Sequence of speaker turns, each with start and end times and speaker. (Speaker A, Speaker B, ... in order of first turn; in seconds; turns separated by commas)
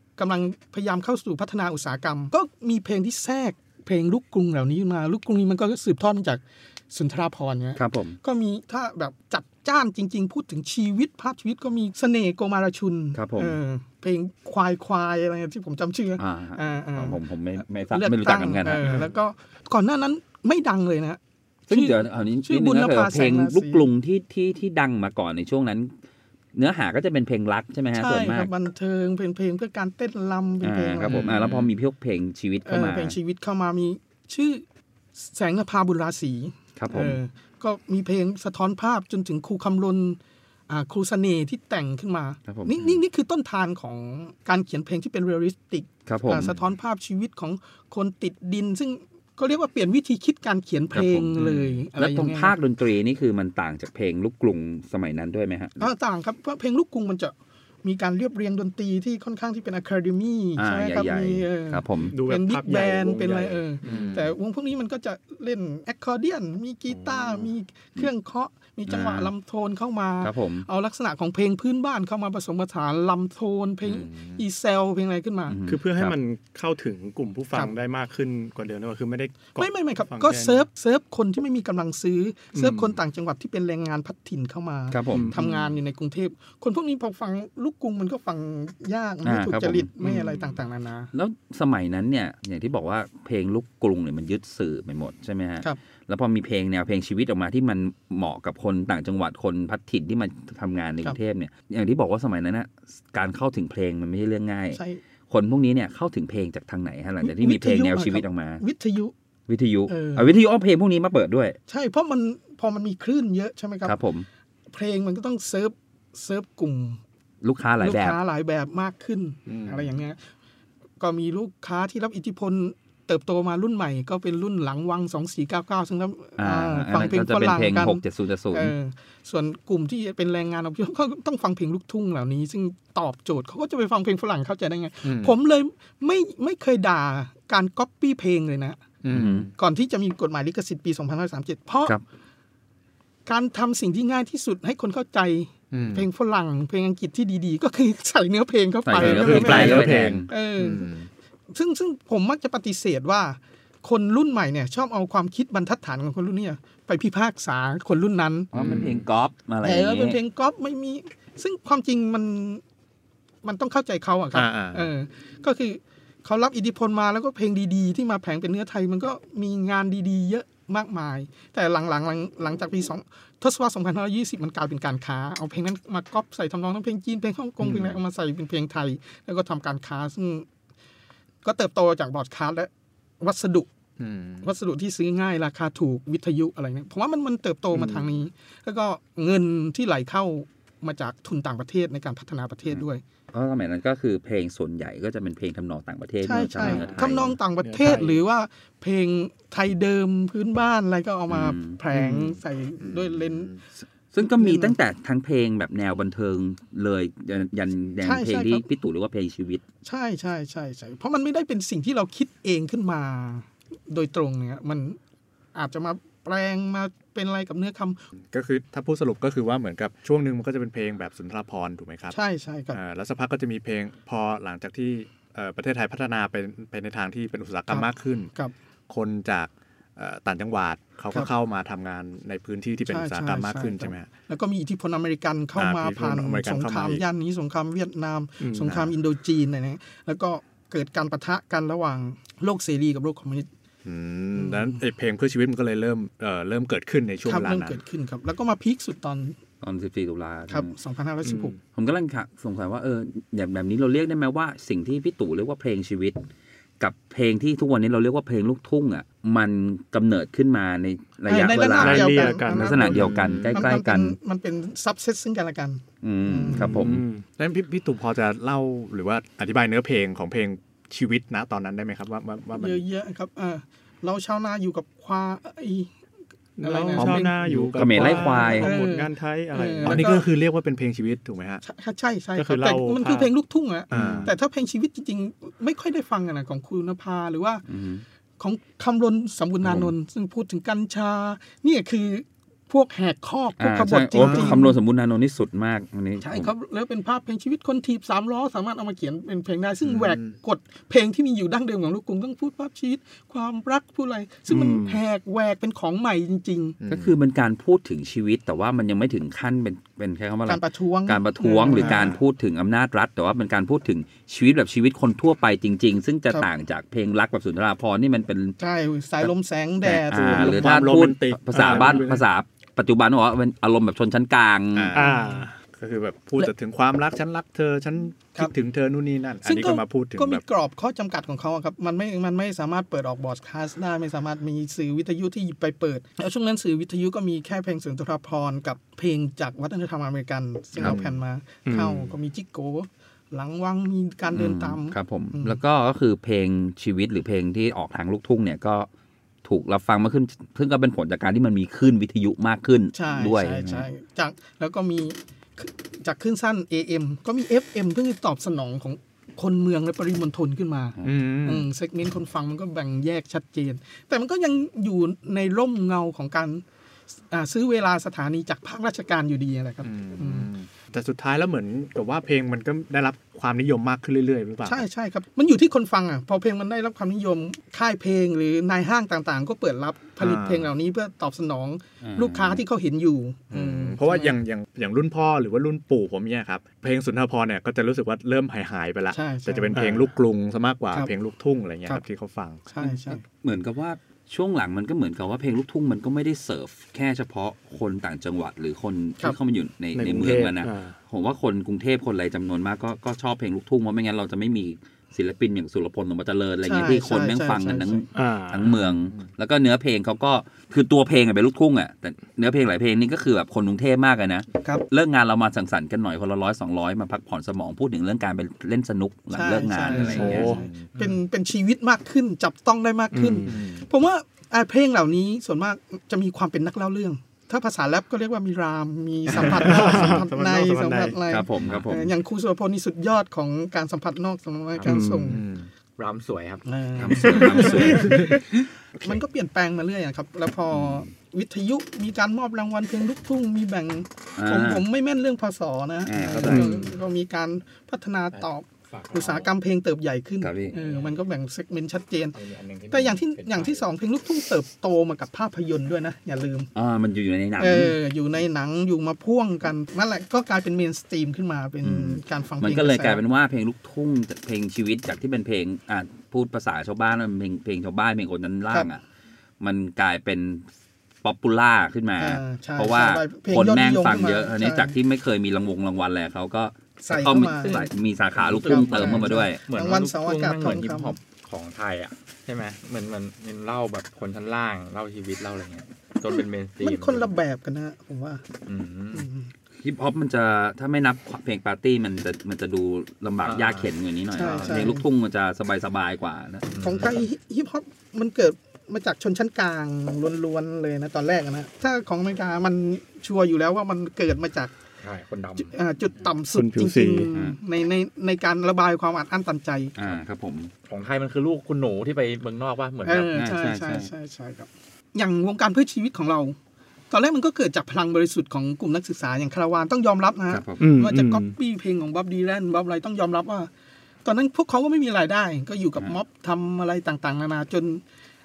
Speaker A: 0.2-17.2, Speaker B: 7.8-8.2, Speaker B: 13.1-13.6, Speaker B: 16.2-19.0, Speaker A: 17.9-21.2, Speaker B: 21.7-25.9, Speaker A: 21.7-23.9, Speaker B: 26.6-28.5, Speaker A: 28.0-31.2, Speaker B: 30.6-33.2, Speaker C: 31.0-31.7, Speaker A: 32.7-34.6, Speaker A: 35.2-52.5, Speaker B: 36.8-37.2, Speaker B: 42.5-43.0, Speaker B: 46.1-46.5, Speaker B: 50.9-55.9, Speaker A: 55.8-75.6, Speaker B: 60.6-62.1, Speaker D: 62.1-64.1, Speaker C: 63.8-64.3, Speaker B: 68.9-69.3, Speaker B: 70.2-70.7, Speaker C: 73.9-74.4, Speaker B: 75.5-76.2, Speaker D: 75.7-80.7, Speaker A: 79.6-91.1, Speaker D: 82.5-82.9, Speaker B: 84.9-85.3, Speaker D: 85.1-85.4, Speaker B: 89.2-89.9, Speaker B: 91.1-108.6, Speaker A: 104.7-105.0, Speaker A: 107.2-109.1, Speaker B: 109.5-111.6, Speaker A: 109.9-110.3, Speaker A: 111.7-114.0, Speaker B: 113.8-114.3, Speaker A: 114.7-117.0, Speaker B: 117.4-118.2, Speaker A: 117.8-120.2, Speaker C: 119.5-119.9, Speaker A: 121.0-138.8, Speaker B: 126.4-128.7, Speaker C: 135.0-135.3, Speaker C: 139.0-139.5, Speaker B: 139.1-139.5, Speaker A: 139.6-142.0, Speaker A: 143.3-150.9, Speaker C: 145.7-146.1, Speaker B: 148.9-150.3, Speaker C: 149.0-151.1, Speaker A: 151.5-158.5, Speaker B: 158.5-160.2, Speaker C: 158.6-159.0, Speaker A: 159.6-162.6, Speaker A: 163.4-180.5, Speaker C: 164.3-164.9, Speaker C: 177.6-178.0, Speaker A: 181.4-182.7, Speaker A: 183.2-183.7, Speaker C: 184.0-184.5, Speaker A: 184.4-193.0, Speaker B: 193.3-197.4, Speaker A: 196.2-203.5, Speaker D: 196.6-197.0, Speaker D: 197.6-198.2, Speaker B: 201.3-201.8, Speaker C: 201.9-203.6, Speaker B: 204.1-209.6, Speaker A: 204.2-204.8, Speaker A: 208.0-208.7, Speaker A: 209.8-215.0, Speaker A: 215.6-218.0, Speaker C: 218.3-222.2, Speaker A: 222.1-222.8, Speaker C: 222.7-228.3, Speaker A: 227.7-228.5, Speaker C: 228.9-234.1, Speaker A: 232.9-243.5, Speaker C: 235.6-237.0, Speaker D: 238.4-238.8, Speaker C: 238.7-238.9, Speaker C: 243.8-247.8, Speaker A: 244.3-244.8, Speaker A: 247.2-249.4, Speaker B: 249.6-250.7, Speaker A: 250.5-251.6, Speaker D: 251.2-251.5, Speaker B: 251.8-256.2, Speaker B: 256.8-264.2, Speaker A: 261.3-266.9, Speaker D: 261.8-263.1, Speaker C: 262.9-263.7, Speaker B: 266.0-267.0, Speaker D: 266.6-267.2, Speaker C: 267.4-272.8, Speaker A: 272.6-275.9, Speaker D: 276.6-280.1, Speaker A: 276.6-277.4, Speaker C: 277.0-278.2, Speaker B: 277.7-278.7, Speaker A: 278.0-280.3, Speaker C: 279.8-281.6, Speaker A: 281.6-287.6, Speaker D: 282.4-283.3, Speaker C: 283.9-284.3, Speaker D: 283.9-284.3, Speaker B: 287.7-288.0, Speaker A: 288.4-294.8, Speaker B: 289.6-289.9, Speaker B: 293.6-296.5, Speaker C: 294.2-294.6, Speaker A: 296.2-306.8, Speaker C: 299.8-300.4, Speaker D: 304.5-305.0, Speaker C: 306.8-307.1, Speaker B: 306.9-318.6, Speaker A: 310.5-312.2, Speaker C: 311.7-312.2, Speaker A: 318.6-320.9, Speaker B: 319.8-325.0, Speaker C: 320.2-322.2, Speaker D: 321.6-322.0, Speaker C: 324.7-325.1, Speaker D: 324.9-325.6, Speaker A: 325.0-325.5, Speaker C: 325.6-330.4, Speaker A: 329.4-345.6, Speaker C: 340.8-341.2, Speaker D: 341.7-342.0, Speaker B: 344.3-348.9, Speaker B: 349.4-353.9, Speaker A: 352.9-366.6, Speaker C: 361.0-361.7, Speaker A: 367.3-370.5, Speaker C: 369.8-374.9, Speaker A: 374.6-384.4, Speaker C: 380.2-380.7, Speaker B: 382.0-382.6, Speaker C: 383.5-392.7, Speaker A: 389.1-389.8, Speaker D: 389.7-390.1, Speaker A: 392.7-393.2, Speaker B: 393.4-420.5, Speaker D: 399.9-400.9, Speaker A: 406.6-408.1, Speaker D: 408.1-408.7, Speaker A: 419.3-435.4, Speaker C: 419.9-420.9, Speaker D: 420.0-420.7, Speaker D: 423.1-423.6, Speaker C: 423.5-423.8, Speaker D: 429.4-431.2, Speaker B: 431.3-432.1, Speaker D: 434.9-435.4, Speaker C: 435.3-435.7, Speaker E: 436.0-438.2, Speaker A: 436.6-438.4, Speaker B: 437.0-438.4, Speaker A: 439.0-452.4, Speaker B: 440.7-441.1, Speaker B: 444.4-444.8, Speaker B: 446.1-446.9, Speaker E: 446.4-446.7, Speaker E: 448.3-449.5, Speaker B: 450.4-450.7, Speaker E: 450.7-451.2, Speaker E: 452.4-453.9, Speaker A: 452.9-456.7, Speaker B: 456.8-457.9, Speaker A: 457.6-463.2, Speaker B: 461.8-469.0, Speaker B: 469.6-470.7, Speaker B: 471.2-479.6, Speaker A: 472.2-474.9, Speaker A: 477.0-477.9, Speaker E: 477.6-487.3, Speaker A: 478.6-481.2, Speaker A: 486.3-488.4, Speaker E: 488.7-489.2, Speaker A: 489.1-489.5, Speaker B: 489.8-496.7, Speaker E: 493.4-494.9, Speaker A: 494.3-495.1, Speaker E: 496.7-497.2, Speaker A: 496.8-504.7, Speaker E: 505.0-505.7, Speaker A: 505.6-509.9, Speaker D: 506.5-507.3, Speaker B: 510.0-510.7, Speaker E: 510.9-513.4, Speaker A: 513.0-516.6, Speaker B: 513.4-514.1, Speaker A: 517.1-523.7, Speaker B: 520.5-520.8, Speaker D: 520.8-521.5, Speaker A: 524.2-528.0